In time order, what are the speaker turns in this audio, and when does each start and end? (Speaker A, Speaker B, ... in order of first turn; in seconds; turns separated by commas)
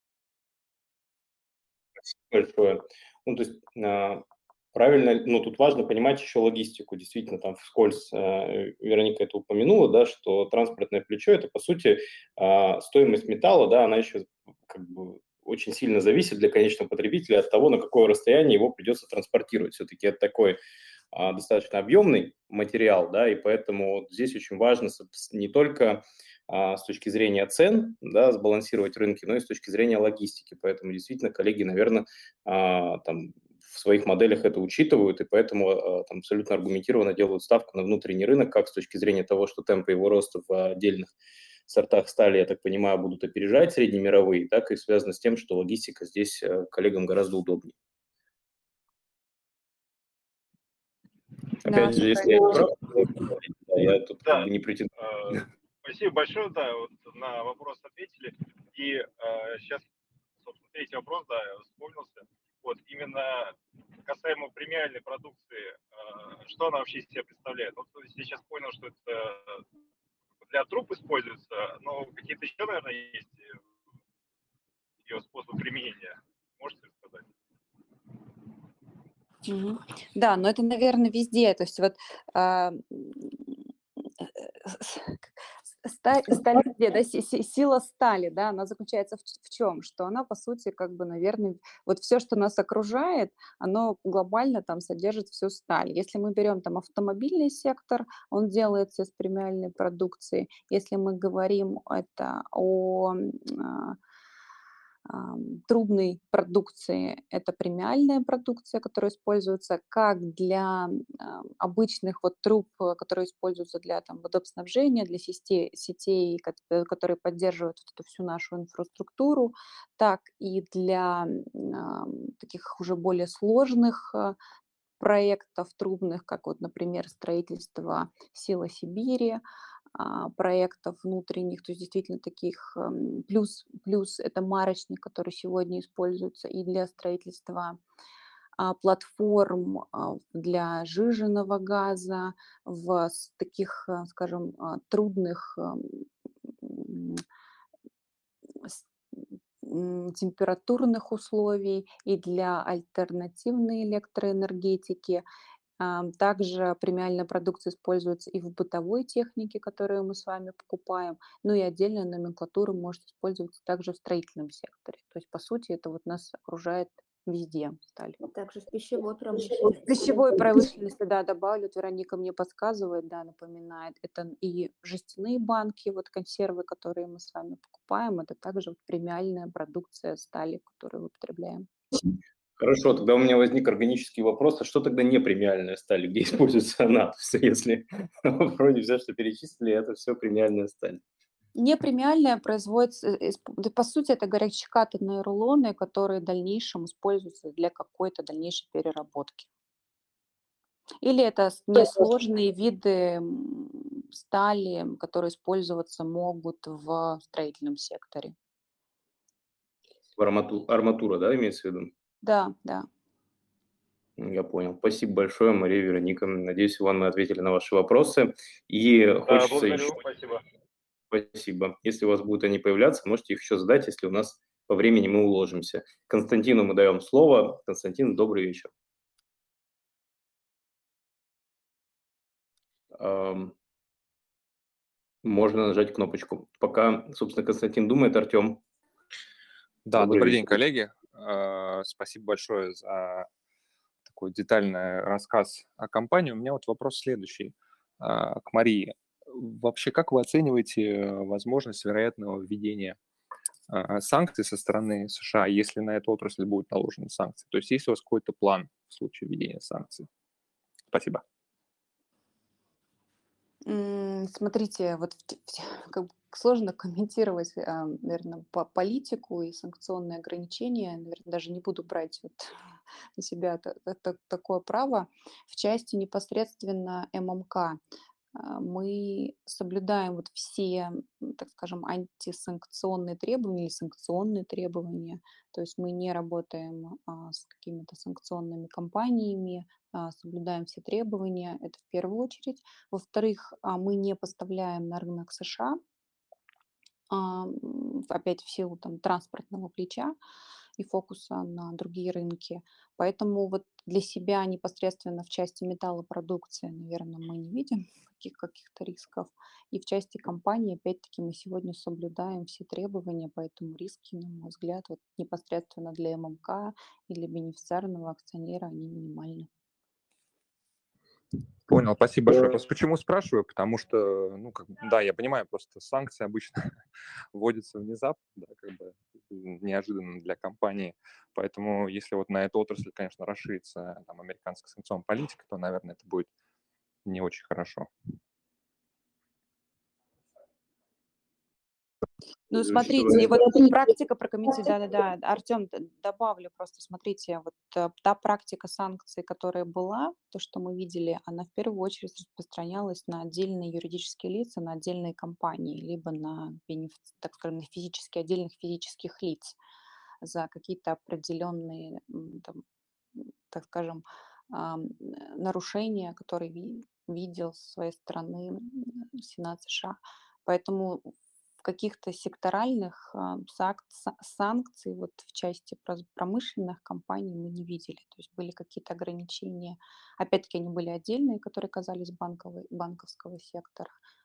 Speaker A: 2.1-20.6, Speaker A: 21.1-41.1, Speaker A: 41.7-47.7, Speaker B: 51.6-52.6, Speaker A: 51.6-54.9, Speaker C: 54.2-59.8, Speaker C: 60.4-69.6, Speaker C: 70.4-73.6, Speaker C: 75.0-77.3, Speaker B: 79.5-83.6, Speaker B: 84.2-104.0, Speaker B: 105.0-124.4, Speaker B: 125.0-129.4, Speaker B: 129.9-137.8, Speaker B: 138.6-146.1, Speaker B: 146.6-147.2, Speaker B: 148.6-155.2, Speaker B: 155.8-168.2, Speaker D: 168.2-170.6, Speaker B: 169.8-181.7, Speaker A: 182.6-191.0, Speaker B: 191.6-199.5, Speaker B: 201.0-208.3, Speaker A: 210.2-211.9, Speaker B: 212.2-212.9, Speaker A: 214.2-220.0, Speaker C: 219.3-220.4, Speaker A: 221.1-228.7, Speaker A: 232.9-233.5, Speaker A: 235.2-238.6, Speaker E: 239.8-243.3, Speaker A: 239.9-240.6, Speaker E: 244.1-253.0, Speaker E: 253.7-260.1, Speaker E: 260.9-261.2, Speaker B: 263.6-272.5, Speaker B: 273.2-277.8, Speaker B: 278.3-295.8, Speaker B: 297.1-300.1, Speaker B: 300.8-319.5, Speaker E: 321.7-326.8, Speaker E: 327.3-336.3, Speaker E: 337.0-337.9, Speaker B: 342.5-359.6, Speaker A: 342.7-343.3, Speaker B: 360.2-362.6, Speaker B: 363.1-383.9